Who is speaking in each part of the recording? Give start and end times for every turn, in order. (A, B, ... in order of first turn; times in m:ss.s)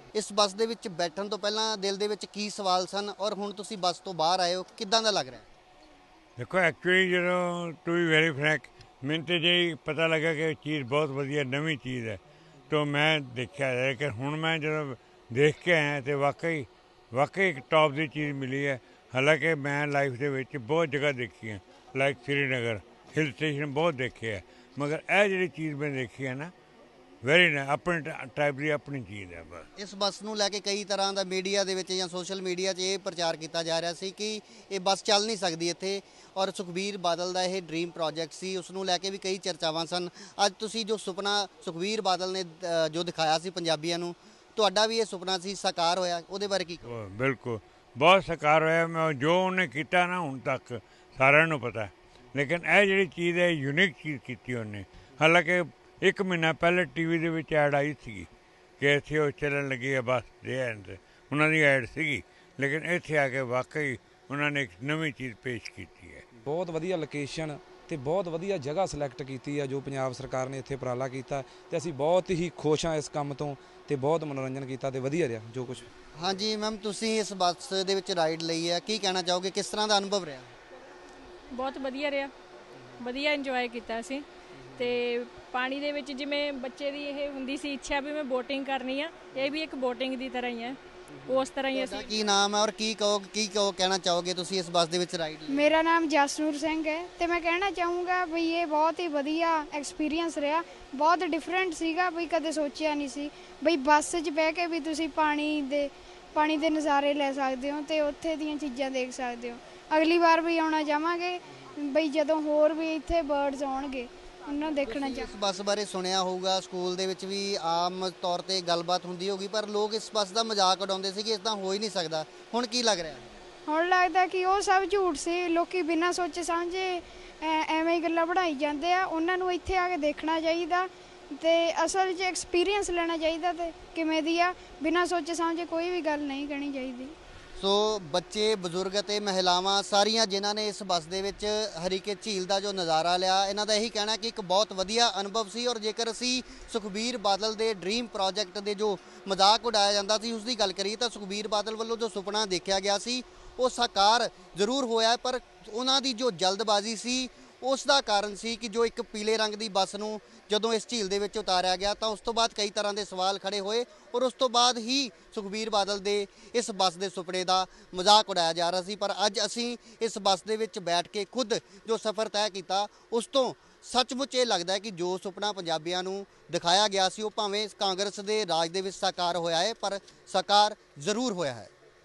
0:00.1-0:05.4 A
0:06.4-0:26.5 B
0:27.2-0:29.7 B
0:29.8-0:46.9 A
0:46.9-1:06.2 B
1:06.4-1:15.9 C
1:16.1-1:20.5 A
1:21.5-1:22.3 D
1:23.0-1:24.2 D
1:24.8-1:32.1 D
1:31.5-1:35.7 A
1:35.5-1:55.3 E
1:54.9-2:03.2 A
2:03.6-2:17.1 E
2:17.6-3:01.7 A